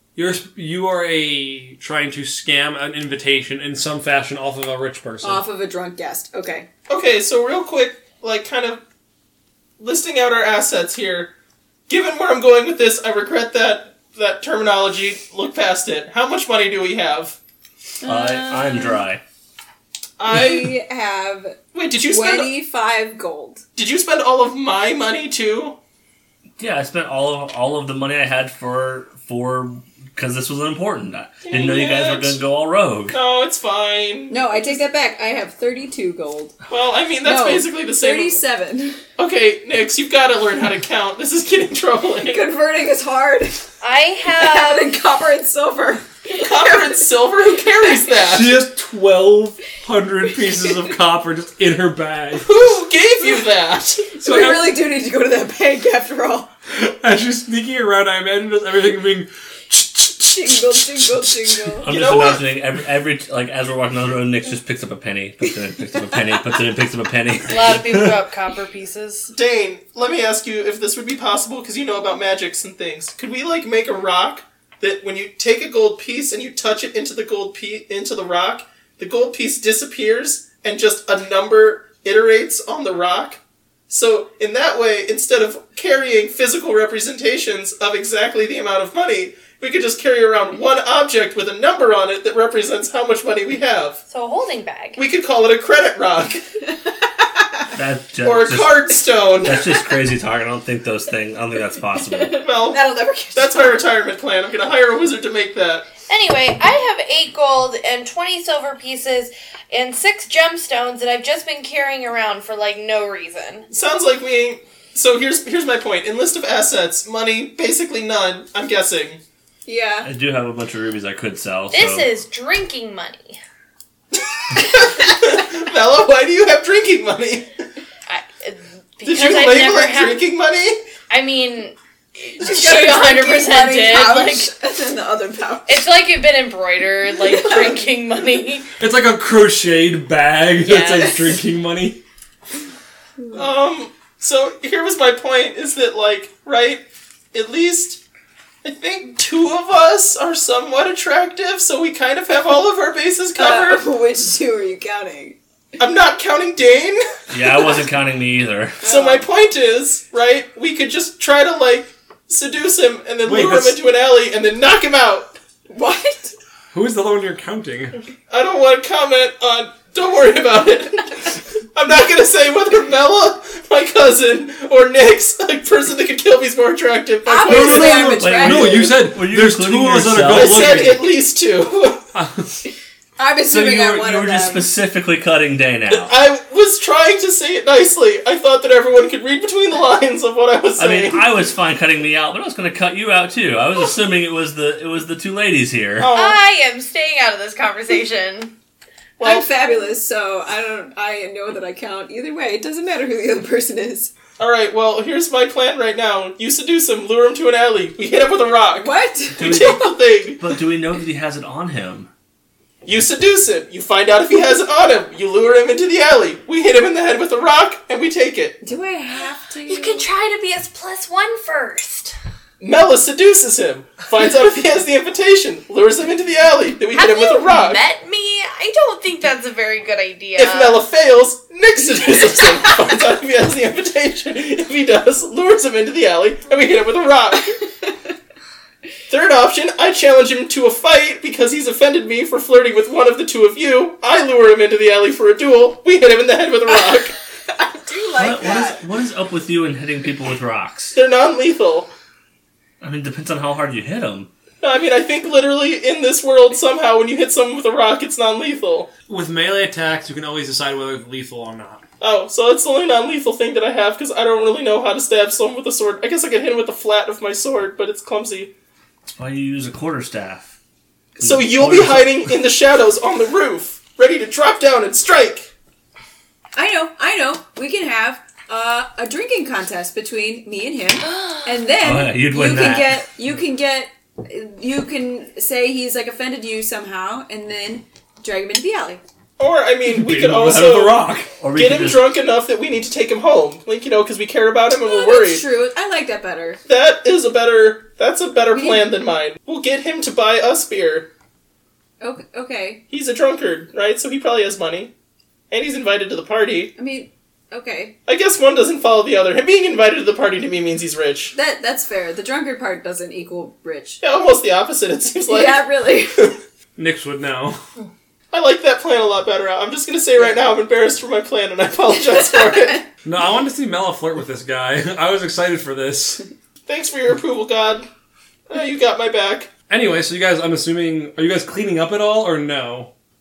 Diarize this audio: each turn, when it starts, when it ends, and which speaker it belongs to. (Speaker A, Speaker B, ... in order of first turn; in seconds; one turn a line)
Speaker A: 0.2-5.4
Speaker B: 5.2-6.7
Speaker C: 6.9-8.8
Speaker C: 9.8-11.3
Speaker C: 11.9-17.4
Speaker B: 18.0-19.1
Speaker D: 18.0-19.2
Speaker C: 20.2-20.8
Speaker B: 20.3-23.6
Speaker C: 21.7-22.6
Speaker C: 23.8-25.8
Speaker D: 26.6-33.2
Speaker C: 31.5-32.4
Speaker C: 33.1-34.7
Speaker B: 34.3-36.6
Speaker C: 36.7-38.4
Speaker B: 37.2-39.0
Speaker C: 39.2-42.4
Speaker B: 42.2-43.6
Speaker E: 43.8-44.9
Speaker B: 44.3-47.1
Speaker C: 46.4-48.6
Speaker A: 48.2-52.5
Speaker C: 52.4-54.1
Speaker B: 54.2-56.5
Speaker A: 54.2-54.8
Speaker A: 56.7-61.7
Speaker B: 60.2-61.9
Speaker D: 61.8-68.1
Speaker C: 61.8-62.4
Speaker E: 67.5-69.3
Speaker C: 69.3-94.0
Speaker E: 94.1-95.0
Speaker C: 95.0-96.5
Speaker B: 97.2-97.6
Speaker D: 97.7-102.4
Speaker C: 98.2-99.7
Speaker B: 102.0-103.8
Speaker C: 102.4-102.8
Speaker C: 103.3-105.9
Speaker E: 106.1-113.7
Speaker C: 113.7-119.2
Speaker B: 119.7-120.1
Speaker D: 120.0-122.1
Speaker E: 121.7-123.4
Speaker C: 124.5-127.6
Speaker E: 128.1-130.2
Speaker C: 129.1-130.8
Speaker E: 131.1-134.5
Speaker B: 132.4-135.8
Speaker E: 135.7-138.7
Speaker A: 138.8-142.0
Speaker E: 140.6-141.3
Speaker C: 143.3-148.0
Speaker C: 148.6-153.9
Speaker B: 153.3-155.4
Speaker C: 155.8-157.1
Speaker D: 157.3-158.8
Speaker B: 158.8-159.2
Speaker C: 158.8-165.3
Speaker A: 163.2-163.8
Speaker B: 165.7-166.3
Speaker A: 166.7-168.0
Speaker C: 168.3-178.2
Speaker B: 177.3-179.1
Speaker A: 177.4-181.1
Speaker D: 178.2-180.9
Speaker C: 180.2-182.0
Speaker A: 182.1-182.6
Speaker B: 183.2-184.7
Speaker D: 183.5-186.1
Speaker C: 185.9-191.3
Speaker D: 190.8-196.1
Speaker C: 196.0-196.4
Speaker E: 196.1-198.5
Speaker C: 199.2-199.5
Speaker B: 199.2-204.1
Speaker C: 204.4-210.4
Speaker B: 208.8-210.0
Speaker D: 209.4-212.1
Speaker C: 212.8-218.6
Speaker B: 218.6-220.1
Speaker E: 219.7-222.2
Speaker C: 222.6-227.8
Speaker E: 226.9-230.8
Speaker C: 230.4-237.6
Speaker C: 239.1-247.2
Speaker B: 247.5-248.8
Speaker D: 248.2-251.0
Speaker C: 250.9-251.9
Speaker D: 252.8-254.3
Speaker C: 254.6-258.9
Speaker A: 259.1-261.8
Speaker C: 262.0-268.5
Speaker D: 269.1-270.5
Speaker D: 271.2-272.3
Speaker C: 271.2-275.5
Speaker B: 276.6-289.0
Speaker E: 281.0-281.7
Speaker D: 281.8-283.1
Speaker C: 289.4-295.5
Speaker A: 289.9-291.3
Speaker D: 291.4-292.1
Speaker B: 294.8-296.6
Speaker C: 296.6-301.1
Speaker B: 298.5-298.9
Speaker B: 302.0-302.9
Speaker C: 302.9-304.9
Speaker C: 305.5-306.7
Speaker B: 306.8-308.0
Speaker C: 308.1-311.3
Speaker B: 311.3-314.0
Speaker C: 314.0-316.3
Speaker B: 315.2-316.4
Speaker A: 316.8-317.6
Speaker C: 318.3-322.8
Speaker B: 322.1-322.6
Speaker A: 323.1-326.2
Speaker C: 326.7-327.9
Speaker C: 328.5-329.5
Speaker A: 329.7-332.9